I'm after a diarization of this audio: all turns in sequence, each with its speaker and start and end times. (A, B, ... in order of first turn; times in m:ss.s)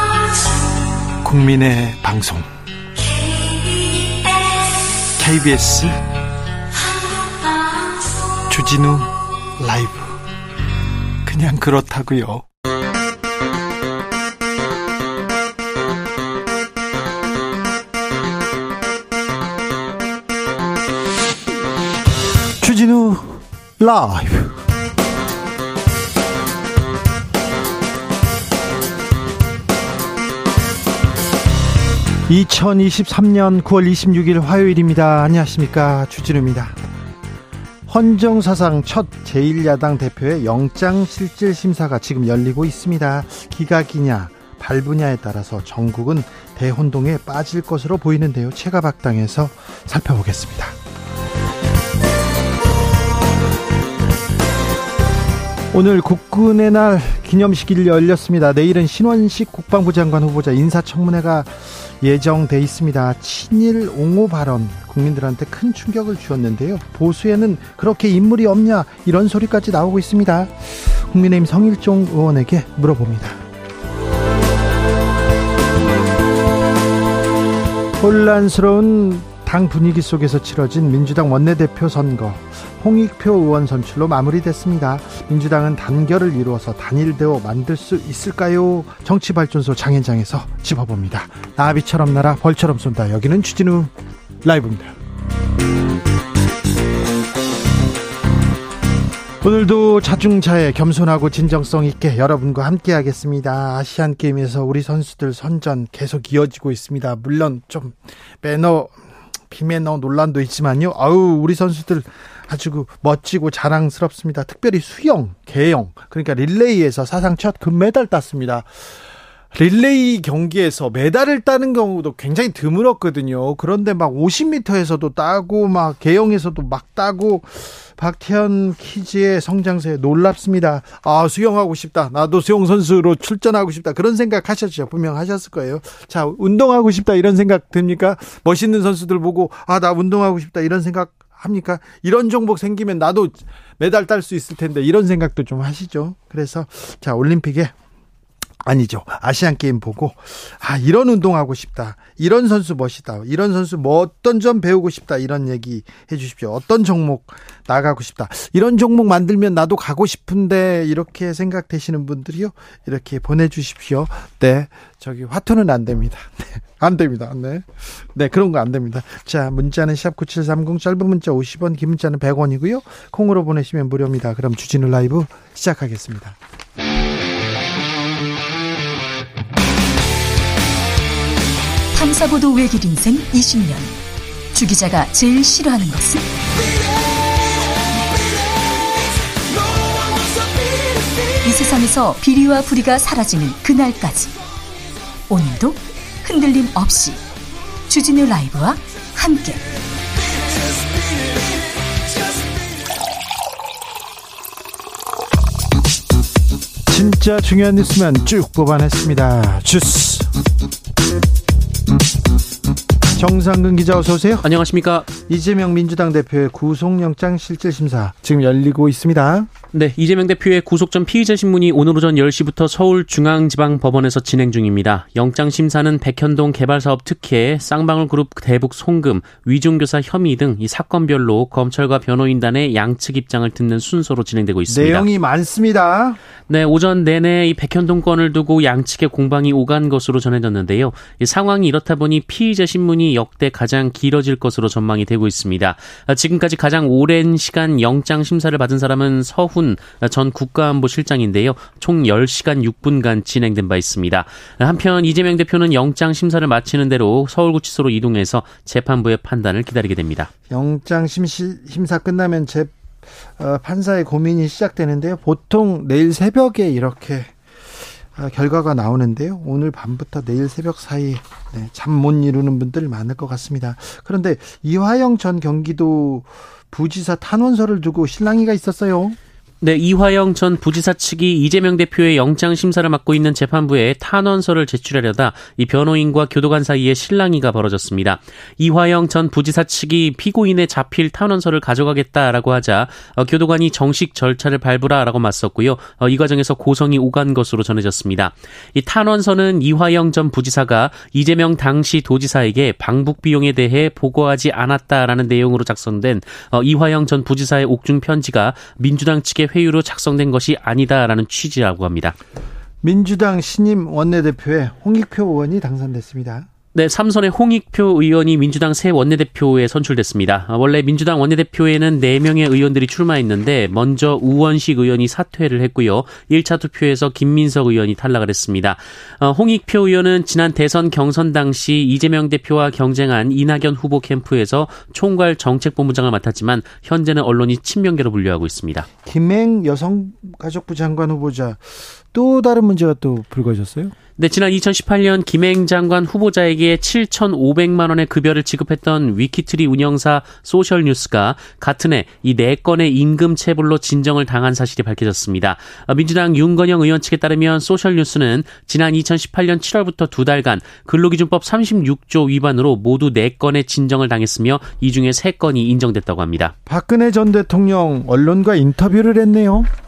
0:01.2-0:02.5 A
0:05.1-0:06.0 A
0:08.5-0:10.2 A
0:11.2-0:12.4 A
0:22.6-0:24.6 A
0:32.3-0:36.8 A
0:37.9-0:50.8 A
0:55.7-1:13.4 A
1:18.0-1:33.9 A
1:34.4-1:34.9 A
1:39.4-1:49.0 A
1:49.5-1:58.9 A
1:59.5-2:27.7 A
2:28.6-2:56.4 A
3:01.9-3:03.9 B
3:04.5-3:06.3 B
3:11.4-3:14.3 B
3:15.3-3:17.2 B
3:17.9-3:19.6 B
3:26.9-3:30.3 A
3:33.1-3:34.4 A
3:34.4-3:35.1 C
3:35.3-3:39.5 A
3:39.7-3:55.1 C
3:54.7-3:56.2 A
3:56.5-4:20.3 C
4:20.5-4:22.7 A
4:23.4-4:27.3 A
4:28.1-4:39.2 A
4:39.6-5:12.2 C
5:12.8-5:16.5 A
5:16.7-5:38.9 C
5:39.0-5:43.9 A
5:44.2-6:06.5 C
6:06.7-6:09.7 A